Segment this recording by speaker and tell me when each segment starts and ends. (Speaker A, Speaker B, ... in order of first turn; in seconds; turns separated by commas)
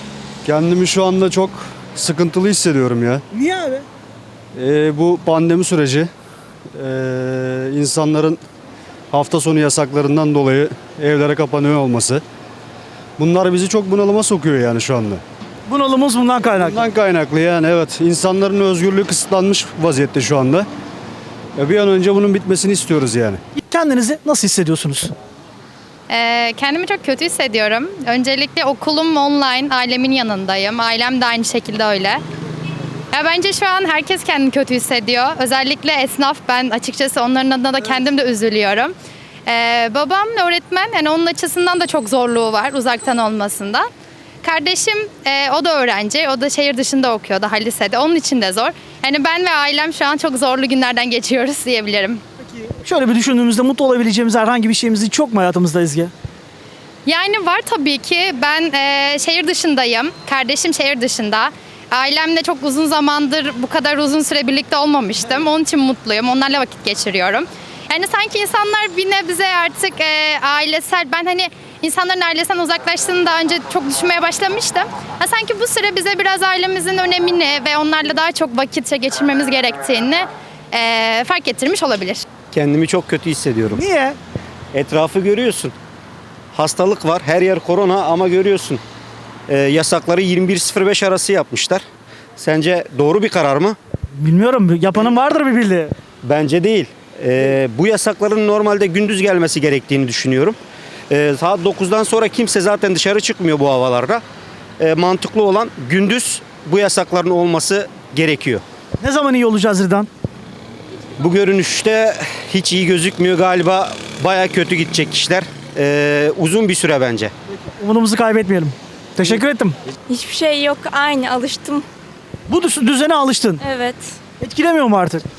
Speaker A: 0.5-3.2, Speaker B: 3.3-3.9, Speaker A: 4.6-6.1, Speaker A: 6.8-8.4, Speaker A: 9.1-12.2, Speaker A: 13.2-15.2, Speaker B: 15.7-16.8, Speaker A: 16.6-20.7, Speaker A: 21.6-23.4, Speaker B: 23.6-25.1, Speaker C: 26.1-32.2, Speaker C: 33.1-38.9, Speaker C: 39.5-43.9, Speaker C: 44.4-52.2, Speaker B: 52.5-56.1, Speaker C: 57.1-82.2, Speaker D: 82.5-83.8, Speaker B: 83.7-84.2, Speaker D: 84.7-85.7, Speaker D: 86.5-88.8, Speaker D: 89.5-91.8, Speaker D: 92.4-93.8, Speaker B: 94.2-96.0, Speaker D: 96.2-100.6, Speaker D: 101.1-104.2, Speaker D: 104.8-108.6, Speaker B: 109.0-110.1, Speaker D: 111.2-117.3, Speaker B: 117.7-119.8, Speaker E: 120.1-121.8, Speaker B: 122.5-123.6, Speaker E: 123.6-124.2, Speaker B: 124.4-125.2